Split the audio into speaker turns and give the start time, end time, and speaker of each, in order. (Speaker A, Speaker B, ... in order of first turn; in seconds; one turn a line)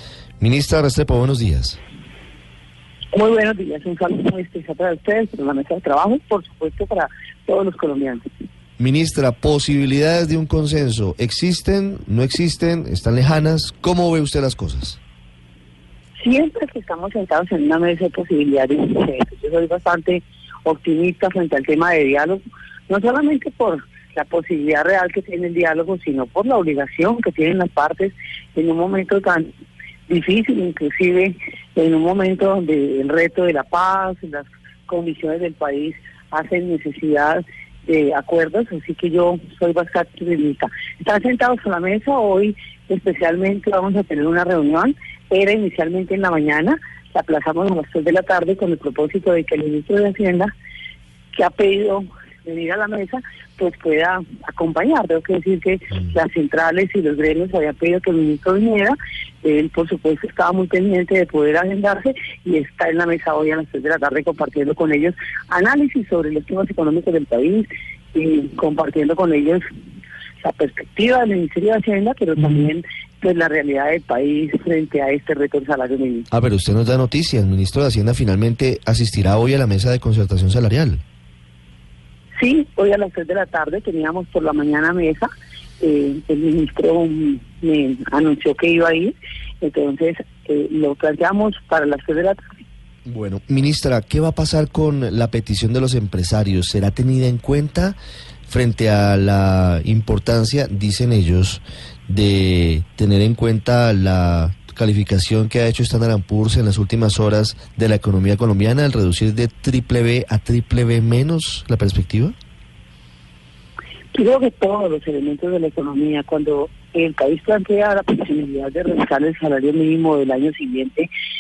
Speaker A: 0.4-1.8
Speaker B: 3.1-8.2
Speaker A: 8.8-15.0
Speaker B: 16.2-29.5
Speaker B: 30.1-50.5
Speaker B: 51.3-69.6
Speaker B: 70.4-76.3
Speaker A: 76.3-81.0
Speaker B: 82.4-85.3
Speaker B: 85.8-92.5
Speaker A: 93.1-112.3
Speaker B: 114.1-121.1